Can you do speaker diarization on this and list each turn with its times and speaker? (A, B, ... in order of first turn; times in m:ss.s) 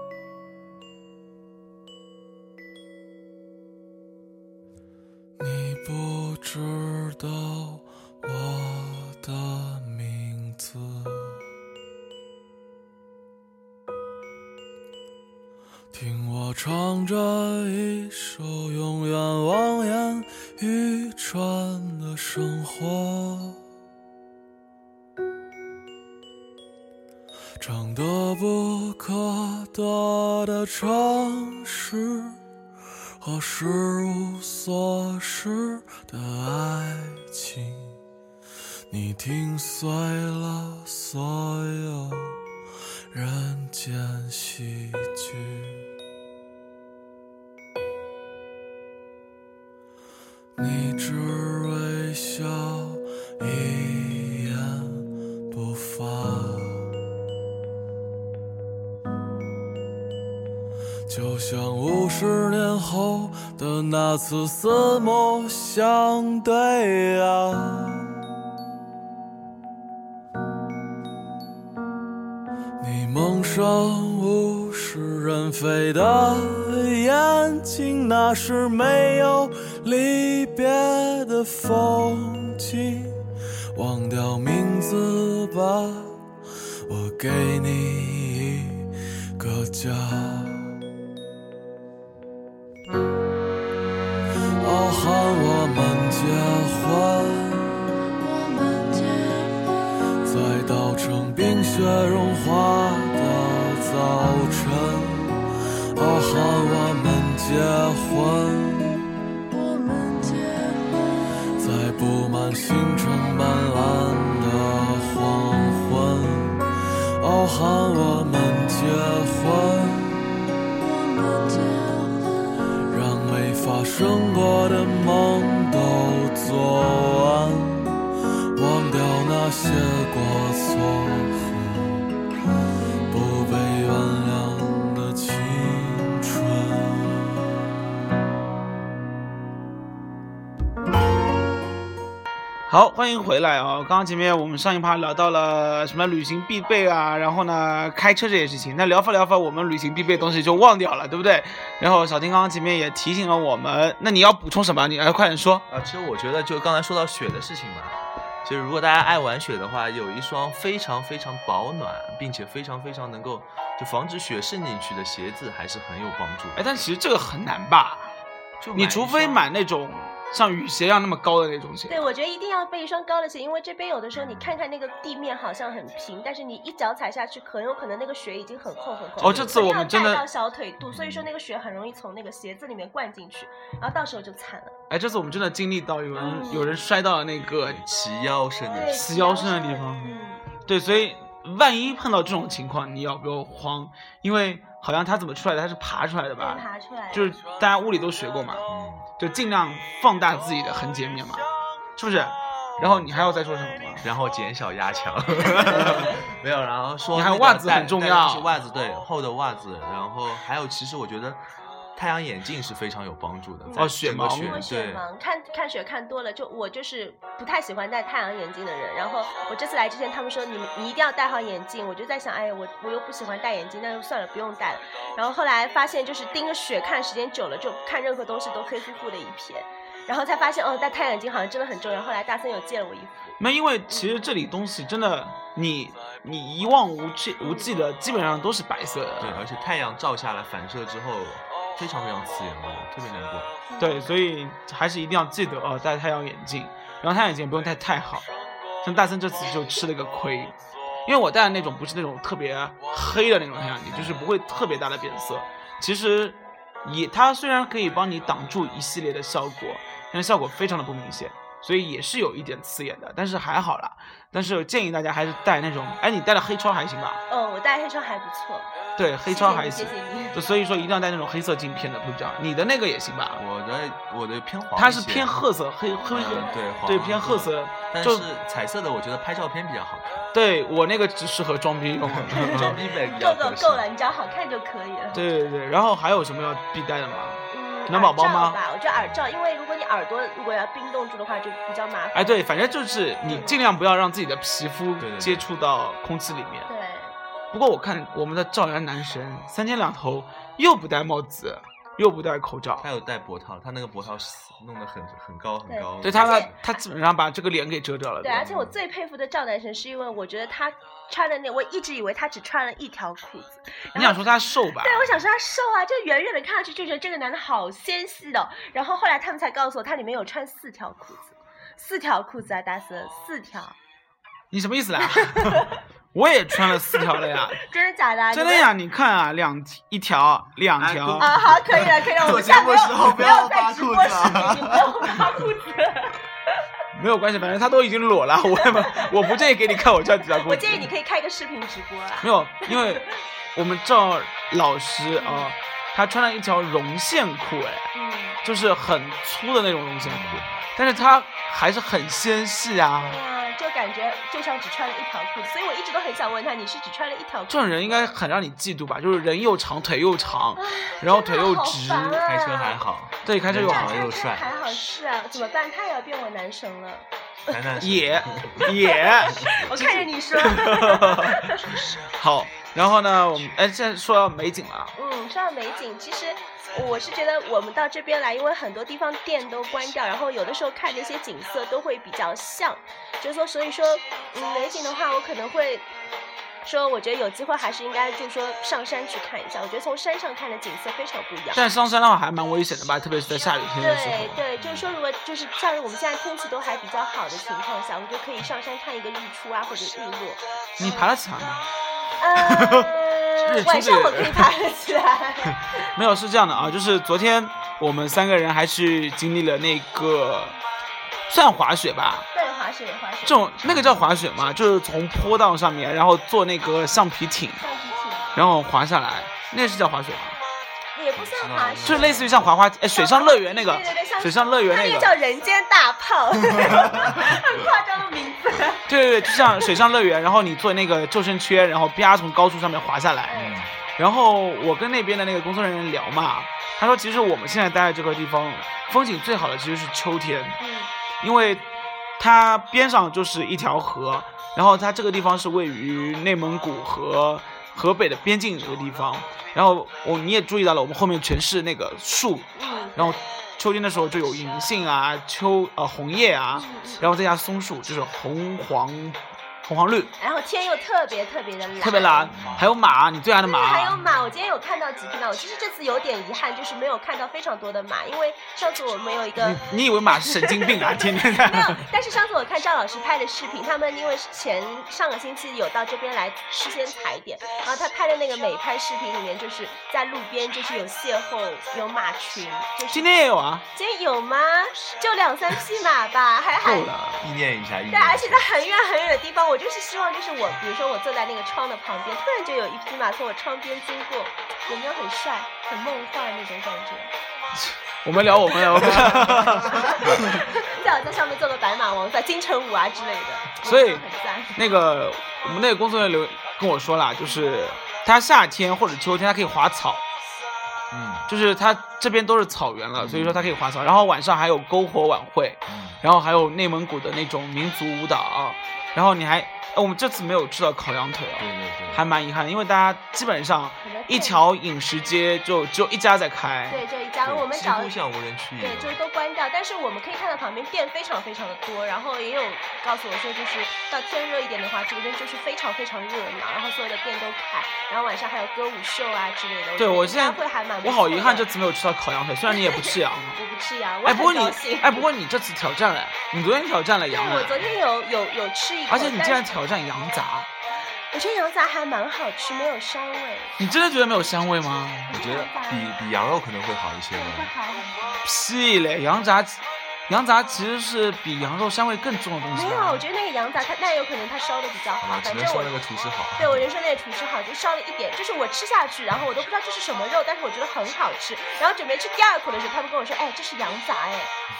0:05.4-0:11.4 A
0:15.9-0:23.6 A
0:27.6-0:32.4 A
0:33.2-0:38.0 A
0:38.9-0:42.4 A
0:43.1-0:45.8 A
0:50.6-0:56.9 A
1:01.1-1:08.2 A
1:12.8-1:23.2 A
1:23.7-1:26.2 A
1:26.9-1:30.8 A
1:34.6-1:37.8 A
1:38.1-1:39.9 B
1:40.2-1:49.0 A
1:49.5-1:51.2 B
1:51.6-1:56.6 A
1:57.2-2:00.2 A
2:00.8-2:02.5 B
2:02.9-2:08.0 A
2:08.5-2:12.1 A
2:13.1-2:17.4 A
2:22.7-2:35.6 C
2:35.7-2:46.7 D
2:46.5-2:48.1 C
2:48.6-2:49.4 D
2:48.7-2:52.0 C
2:51.9-3:04.7 E
2:54.2-2:54.5 D
2:59.2-3:00.2 C
2:59.2-2:59.6 D
3:00.8-3:01.2 D
3:04.9-3:07.8 C
3:06.1-3:06.7 E
3:07.6-3:09.0 D
3:08.7-3:10.5 E
3:09.0-3:10.1 C
3:10.6-3:18.6 C
3:16.4-3:17.3 E
3:18.7-3:19.1 D
3:19.2-3:21.4 C
3:22.0-3:24.0 C
3:22.8-3:23.1 D
3:24.0-3:31.4 D
3:25.7-3:26.1 C
3:27.1-3:28.5 C
3:32.0-3:35.0 D
3:33.6-3:53.4 E
3:33.8-3:34.6 C
3:53.4-3:59.4 C
3:53.9-3:54.2 E
3:57.4-3:57.7 E
3:59.2-4:03.5 D
4:03.7-4:04.1 E
4:03.8-4:08.3 C
4:08.8-4:27.2 C
4:13.9-4:14.2 D
4:27.3-4:28.7 E
4:29.0-4:33.4 C
4:29.3-4:30.4 E
4:33.3-4:35.4 D
4:34.8-4:38.2 C
4:36.1-4:40.3 D
4:36.1-4:36.6 E
4:40.3-4:42.7 C
4:42.0-4:43.9 D
4:42.3-4:45.2 E
4:45.1-4:48.6 C
4:47.5-4:52.7 E
4:52.1-4:56.7 C
4:53.3-4:53.6 E
4:55.0-4:55.5 D
4:56.7-4:57.2 E
4:57.5-5:02.9 C
5:02.8-5:06.5 D
5:05.7-5:06.5 E
5:06.0-5:08.4 C
5:08.2-5:14.3 E
5:08.3-5:08.8 D
5:13.9-5:15.1 C
5:14.8-5:23.8 E
5:24.5-5:27.6 C
5:25.2-5:25.6 E
5:27.6-5:28.7 E
5:28.3-5:31.3 C
5:30.8-5:35.2 D
5:31.2-5:36.2 E
5:36.9-5:40.9 C
5:38.7-5:39.4 E
5:40.3-5:43.0 E
5:42.2-5:47.9 C
5:45.2-5:45.5 E
5:47.9-5:48.4 E
5:48.4-5:53.2 C
5:50.0-5:50.6 D
5:53.0-5:58.1 E
5:57.5-6:02.2 C
6:00.6-6:02.8 E
6:02.2-6:04.5 D
6:03.2-6:04.0 C
6:03.6-6:07.7 E
6:07.5-6:08.7 D
6:07.8-6:14.9 C
6:08.6-6:11.9 E
6:09.4-6:10.0 D
6:15.0-6:25.9 E
6:26.6-6:31.7 E
6:31.5-6:34.4 C
6:33.8-6:41.1 E
6:34.6-6:34.9 D
6:40.8-6:41.6 C
6:42.2-6:45.8 E
6:42.3-6:42.9 C
6:43.4-6:44.5 C
6:45.8-6:50.5 C
6:51.3-6:52.3 C
6:52.3-6:53.5 E
6:53.2-6:57.6 C
6:53.6-6:54.1 D
6:57.6-6:58.4 E
6:58.3-7:00.4 C
7:00.9-7:02.1 E
7:01.2-7:02.5 D
7:01.8-7:05.1 C
7:02.9-7:08.9 E
7:08.9-7:20.6 C
7:13.3-7:13.6 E
7:13.4-7:13.7 D
7:20.6-7:20.9 E
7:21.2-7:21.6 C
7:22.2-7:40.1 C
7:32.6-7:33.2 E
7:36.5-7:37.0 E
7:40.2-7:42.3 E
7:41.8-7:44.0 C
7:42.3-7:42.7 D
7:43.4-7:49.6 E
7:49.4-7:51.8 C
7:50.2-8:03.1 E
8:02.9-8:03.6 C
8:03.7-8:06.9 E
8:06.6-8:07.2 C
8:07.2-8:08.5 D
8:07.9-8:17.1 E
8:17.5-8:20.4 C
8:18.8-8:19.4 D
8:19.2-8:24.6 E
8:23.6-8:30.0 C
8:30.9-8:31.3 D
8:31.3-8:46.8 C
8:33.0-8:33.6 D
8:35.7-8:36.0 D
8:41.4-8:42.0 D
8:43.8-8:44.4 E
8:46.7-8:47.9 E
8:47.2-8:49.0 D
8:48.6-9:01.5 E
8:59.8-9:03.4 C
9:02.5-9:05.0 E
9:04.0-9:07.6 C
9:07.1-9:09.5 E
9:08.9-9:10.5 C
9:11.1-9:13.6 E
9:13.6-9:15.1 C
9:15.1-9:15.9 E
9:15.1-9:17.5 D
9:17.1-9:18.2 E
9:18.2-9:23.0 C
9:22.5-9:25.7 E
9:25.0-9:26.6 D
9:26.4-9:34.3 E